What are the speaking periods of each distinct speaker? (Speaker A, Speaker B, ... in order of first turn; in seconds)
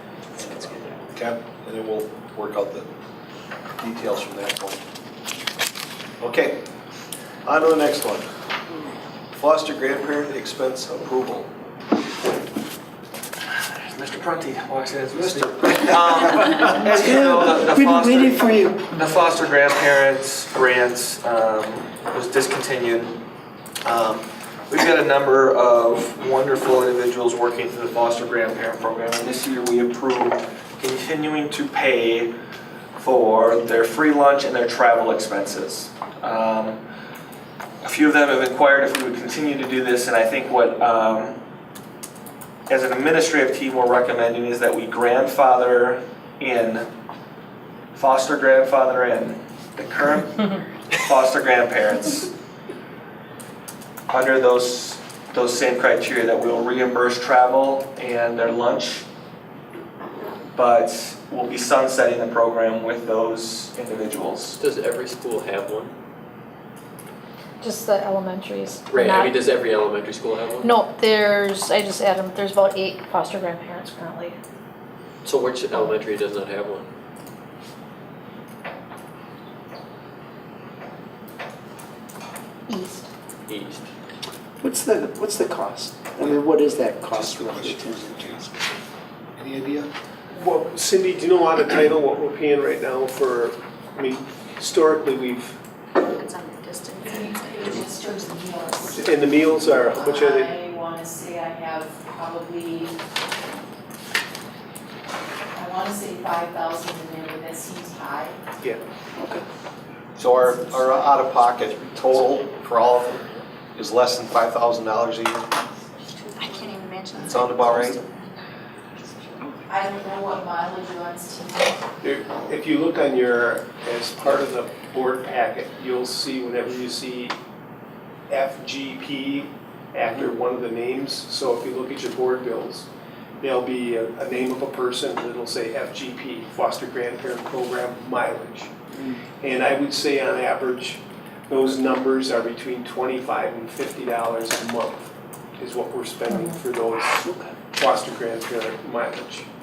Speaker A: 0.4-2.9, 3.8-4.8, 6.2-6.7, 7.4-8.3, 9.4-11.5, 15.1-16.6, 87.1-88.4, 89.4-89.9, 110.2-115.5, 117.2-118.0
Speaker B: 13.7-23.2, 23.8-32.3, 33.0-36.8, 37.8-41.4, 42.7-46.9, 47.9-52.3, 54.1-59.0, 60.5-64.6
Speaker C: 16.6-18.9, 84.6-88.6, 109.2-109.4
Speaker D: 64.6-65.9, 68.9-70.7, 75.2-76.9, 83.5-83.9
Speaker E: 67.6-69.4, 70.6-74.3, 82.7-83.1, 146.3-146.6
Speaker F: 90.3-95.6, 98.8-100.5, 122.0-127.4, 128.3-132.9, 133.4-138.8, 139.4-149.5
Speaker G: 95.9-97.7, 116.2-118.4
Speaker H: 97.1-103.0, 105.5-108.4, 110.4-111.2, 119.7-121.8